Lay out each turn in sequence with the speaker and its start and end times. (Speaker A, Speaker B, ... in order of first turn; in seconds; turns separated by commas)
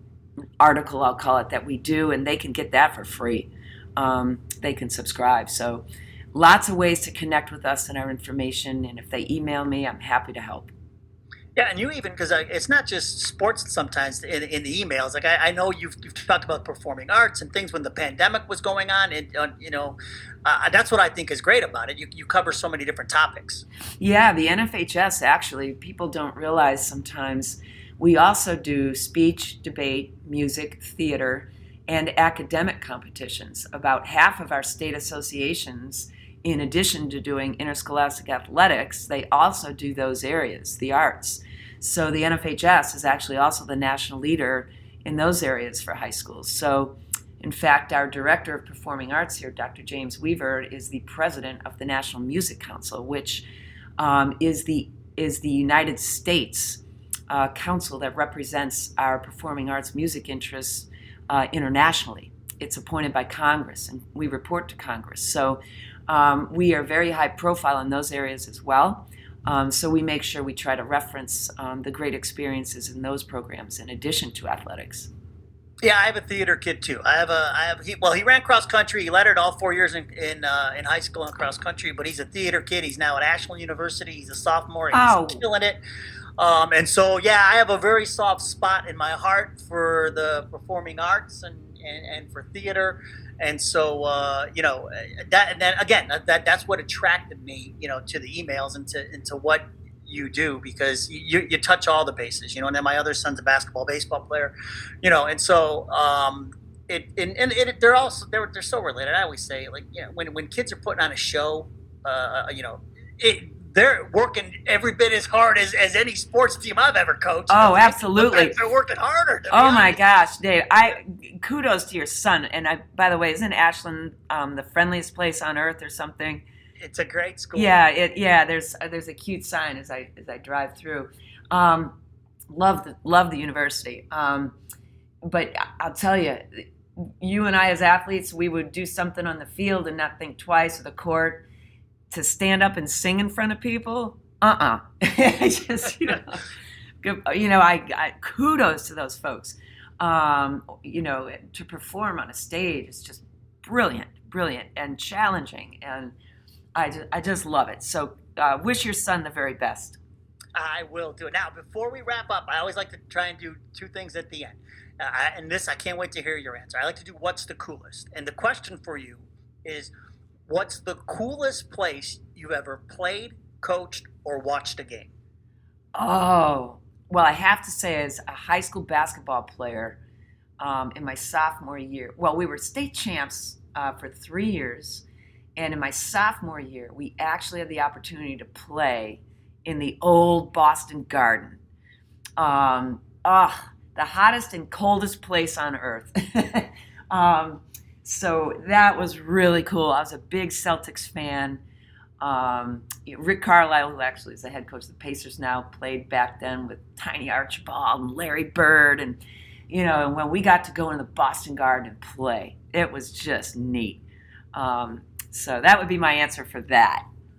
Speaker A: 0.6-10.7, Speaker B: 11.6-23.6, Speaker A: 24.0-53.5, Speaker A: 54.0-75.1, Speaker B: 75.8-85.8, Speaker A: 84.9-85.4, Speaker B: 86.4-120.0, Speaker A: 117.5-118.5, Speaker A: 119.5-126.5, Speaker B: 126.8-127.7, Speaker A: 127.5-131.9, Speaker A: 132.5-134.6, Speaker A: 135.3-141.4, Speaker A: 142.1-146.4, Speaker A: 147.0-156.1, Speaker A: 156.7-160.0, Speaker B: 160.6-169.9, Speaker B: 170.5-175.1, Speaker A: 175.9-180.0, Speaker A: 180.6-185.1, Speaker A: 185.6-191.6, Speaker A: 192.4-201.6, Speaker A: 202.2-217.0